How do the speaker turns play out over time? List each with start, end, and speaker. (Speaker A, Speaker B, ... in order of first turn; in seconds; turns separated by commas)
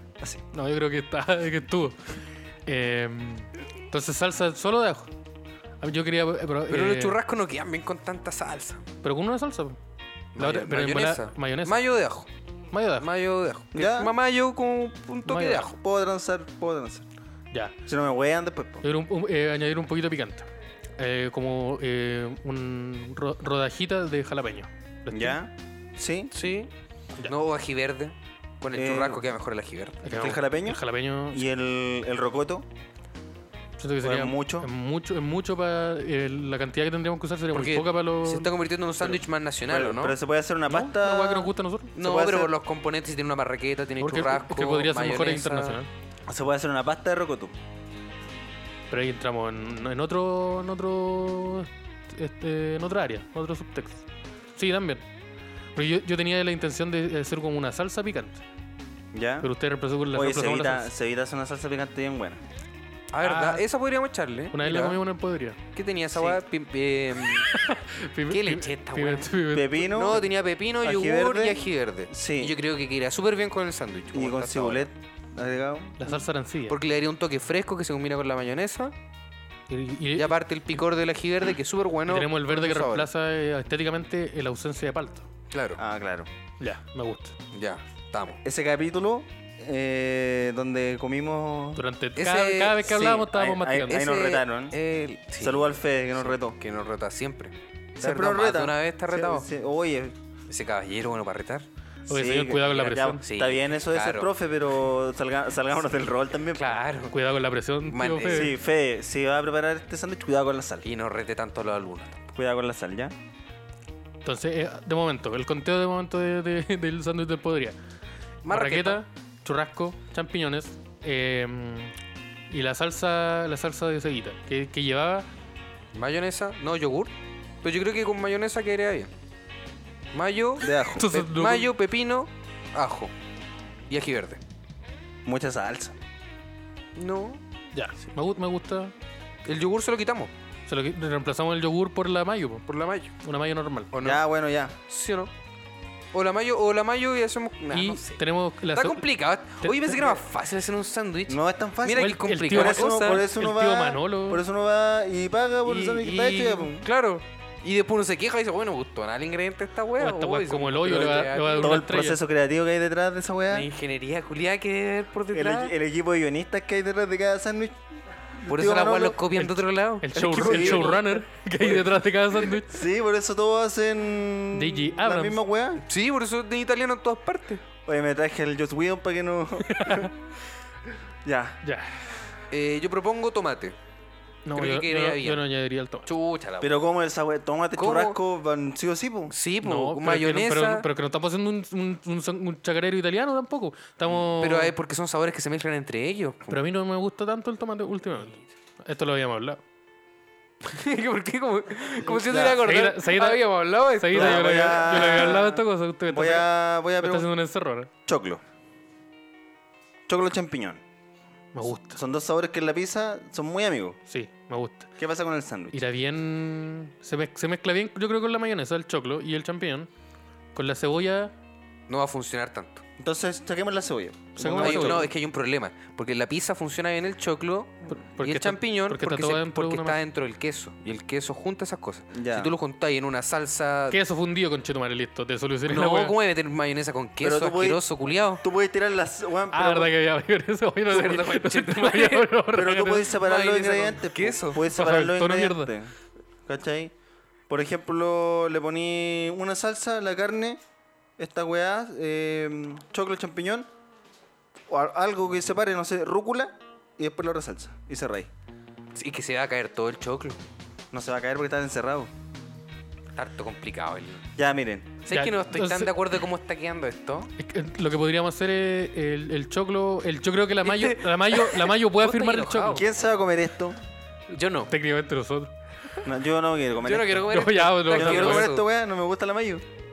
Speaker A: 0.5-5.1, Speaker A: 5.8-7.2, Speaker B: 6.7-8.8, Speaker A: 9.0-9.8, Speaker B: 10.3-12.3, Speaker A: 10.4-11.8, Speaker A: 12.7-13.1, Speaker B: 13.0-15.8, Speaker C: 13.7-14.1, Speaker A: 15.3-15.7, Speaker C: 15.5-17.1, Speaker C: 17.9-18.9, Speaker A: 18.8-20.5, Speaker A: 21.0-25.4, Speaker C: 25.1-26.3, Speaker B: 26.3-26.7, Speaker B: 27.3-30.0, Speaker C: 28.7-29.2, Speaker A: 30.0-31.4, Speaker C: 30.1-30.8, Speaker C: 31.3-32.7, Speaker A: 33.8-38.5, Speaker C: 34.0-34.7, Speaker B: 37.5-40.2, Speaker C: 39.0-42.5, Speaker A: 40.7-41.9, Speaker B: 42.0-45.8, Speaker A: 44.0-45.9, Speaker C: 46.3-47.5, Speaker A: 48.9-55.0, Speaker A: 55.8-58.4, Speaker C: 59.1-59.5, Speaker A: 59.4-60.9, Speaker C: 60.1-62.4, Speaker B: 63.1-65.0, Speaker A: 63.2-63.6, Speaker A: 64.5-65.6, Speaker B: 65.7-67.5, Speaker A: 67.2-69.9, Speaker B: 68.3-69.3, Speaker C: 69.5-70.3, Speaker B: 69.9-74.9, Speaker C: 70.8-72.6, Speaker C: 74.1-76.0, Speaker A: 76.0-76.8, Speaker B: 76.7-78.9, Speaker A: 79.7-80.4, Speaker B: 80.2-83.1, Speaker A: 82.1-85.3, Speaker B: 85.5-85.8, Speaker C: 85.8-86.3, Speaker A: 86.6-87.4, Speaker B: 87.5-88.4, Speaker C: 88.4-91.8, Speaker A: 91.8-94.0, Speaker B: 92.2-99.5, Speaker C: 92.9-94.8, Speaker C: 95.4-96.6, Speaker C: 98.0-100.2, Speaker B: 100.5-101.7, Speaker A: 102.1-103.2, Speaker C: 102.1-106.8, Speaker B: 102.8-104.3, Speaker B: 106.5-107.2, Speaker A: 107.1-108.5, Speaker B: 107.9-108.5, Speaker C: 108.3-110.9, Speaker B: 110.8-112.2, Speaker C: 112.3-113.2, Speaker A: 114.2-117.8, Speaker B: 118.4-119.0, Speaker A: 118.5-121.9, Speaker A: 122.5-125.3, Speaker B: 125.9-127.1, Speaker B: 127.6-129.1, Speaker B: 130.1-133.1, Speaker C: 130.6-131.2, Speaker A: 130.9-131.7, Speaker B: 133.9-134.4, Speaker C: 135.2-136.0, Speaker B: 137.0-137.4, Speaker A: 137.7-138.9, Speaker B: 139.4-140.3, Speaker A: 140.7-142.7, Speaker B: 142.7-143.1, Speaker A: 143.2-143.9, Speaker B: 143.9-144.2, Speaker C: 144.0-144.8, Speaker B: 144.9-145.3, Speaker B: 146.1-153.3, Speaker A: 147.7-149.1, Speaker A: 149.6-150.2, Speaker C: 151.3-156.9, Speaker A: 151.9-154.4, Speaker B: 155.7-161.8, Speaker A: 160.0-162.2, Speaker C: 161.6-163.7, Speaker B: 163.5-165.7, Speaker C: 165.3-167.8, Speaker C: 168.4-169.2, Speaker B: 168.5-171.8, Speaker A: 169.3-172.8, Speaker C: 170.3-171.0, Speaker C: 172.7-175.8, Speaker A: 174.5-175.4, Speaker B: 175.9-177.6, Speaker C: 177.9-180.1, Speaker A: 179.7-180.1, Speaker C: 181.2-181.6, Speaker A: 181.6-182.0, Speaker B: 182.5-183.8, Speaker A: 184.5-186.1, Speaker B: 184.5-185.4, Speaker B: 186.1-186.8, Speaker C: 186.6-189.3, Speaker B: 187.8-188.2, Speaker B: 189.3-190.9, Speaker A: 189.6-194.7, Speaker B: 194.2-196.6, Speaker A: 196.5-199.6, Speaker B: 200.6-205.4, Speaker C: 202.1-202.6, Speaker A: 202.6-206.5, Speaker C: 204.1-207.3, Speaker A: 207.0-207.9, Speaker C: 208.1-208.4, Speaker C: 210.1-210.8, Speaker A: 211.5-212.0, Speaker C: 211.9-214.0, Speaker A: 214.1-214.9, Speaker C: 215.0-215.8, Speaker A: 215.7-219.9, Speaker A: 220.6-221.3, Speaker B: 221.9-222.8, Speaker C: 223.0-225.1, Speaker A: 224.4-225.1, Speaker B: 224.6-234.0, Speaker A: 227.9-230.0, Speaker C: 232.1-232.5, Speaker A: 233.9-236.1, Speaker B: 235.7-238.4, Speaker C: 237.2-237.8, Speaker C: 238.4-239.9, Speaker A: 239.5-243.1, Speaker B: 240.9-242.3, Speaker C: 242.5-245.9, Speaker B: 243.1-244.6, Speaker A: 244.7-245.7, Speaker C: 246.5-246.9, Speaker C: 247.5-250.6, Speaker C: 251.2-253.7, Speaker C: 254.7-258.3, Speaker B: 258.9-260.4, Speaker C: 260.9-262.1, Speaker B: 263.2-264.2, Speaker C: 264.4-265.0, Speaker B: 265.0-267.3, Speaker A: 265.1-265.9, Speaker A: 267.4-272.8, Speaker B: 270.6-272.9, Speaker C: 272.7-273.8, Speaker B: 274.3-274.7, Speaker A: 274.7-275.5, Speaker C: 276.0-277.3, Speaker B: 276.8-278.6, Speaker A: 277.3-278.5, Speaker C: 277.9-279.6